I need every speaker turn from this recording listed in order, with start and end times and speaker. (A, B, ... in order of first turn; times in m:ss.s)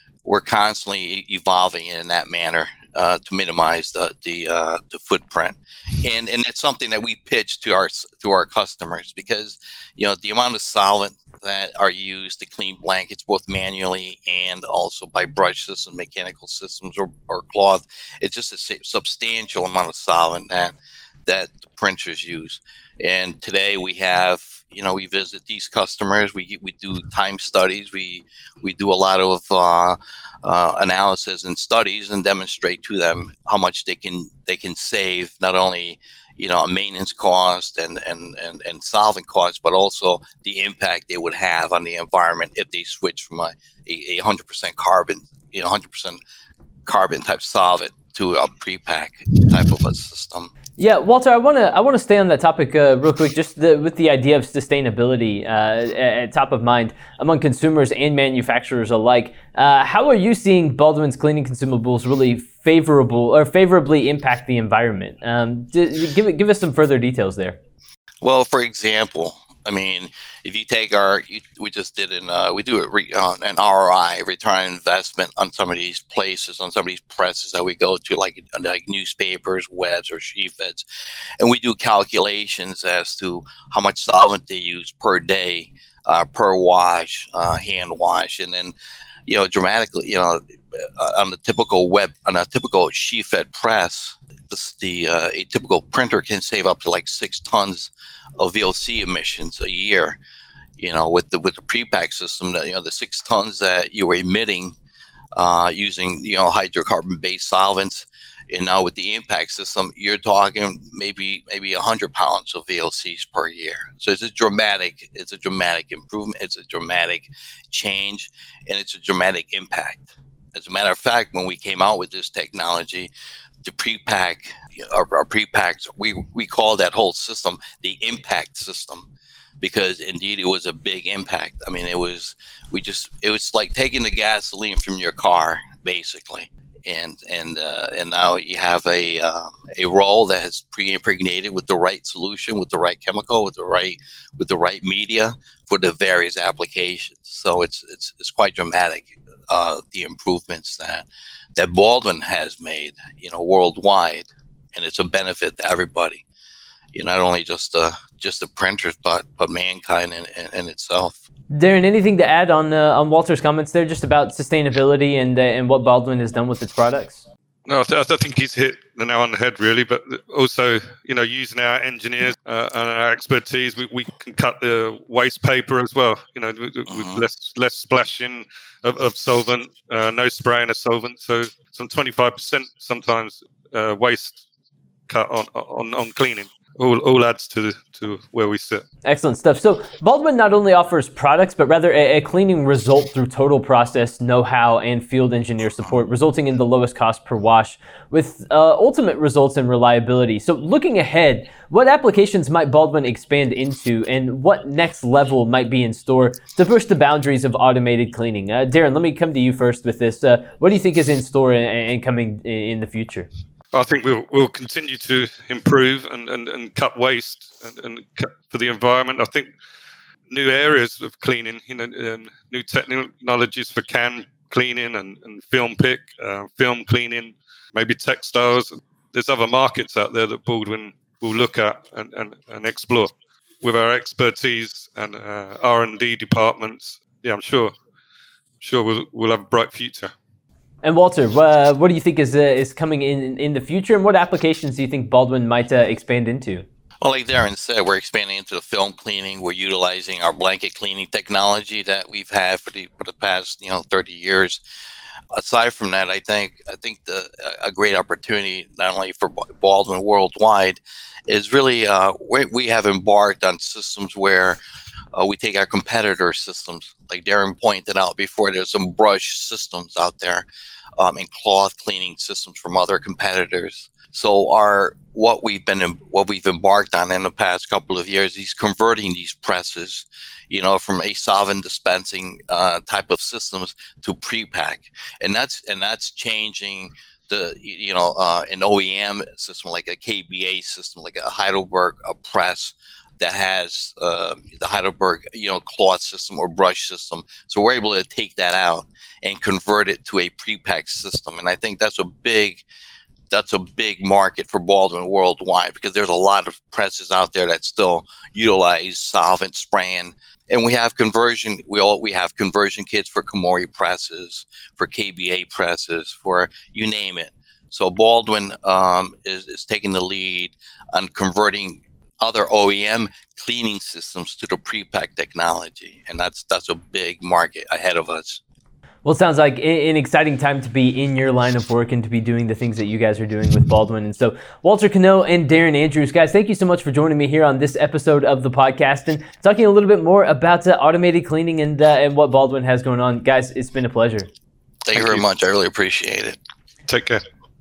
0:00.2-0:46.2 A
0:46.8-0:50.5 A
0:50.8-1:07.6 B
1:08.2-1:20.8 A
1:21.4-1:28.7 A
1:29.3-1:40.2 A
1:40.8-1:44.8 A
1:45.3-2:03.1 A
2:03.6-2:09.1 A
2:09.6-2:36.2 A
2:36.9-2:41.2 A
2:41.5-2:47.2 B
2:47.6-3:04.4 C
2:56.9-2:57.2 A
3:05.1-3:08.8 C
3:09.0-3:33.3 B
3:33.7-3:39.5 C
3:40.3-3:57.7 C
3:58.6-4:00.1 C
4:00.8-4:06.6 B
4:07.0-4:14.6 A
4:15.3-4:24.6 A
4:25.1-4:30.5 A
4:31.0-5:02.6 A
5:03.3-5:28.4 A
5:29.0-5:44.3 B
5:44.8-5:46.4 A
5:46.9-5:47.2 C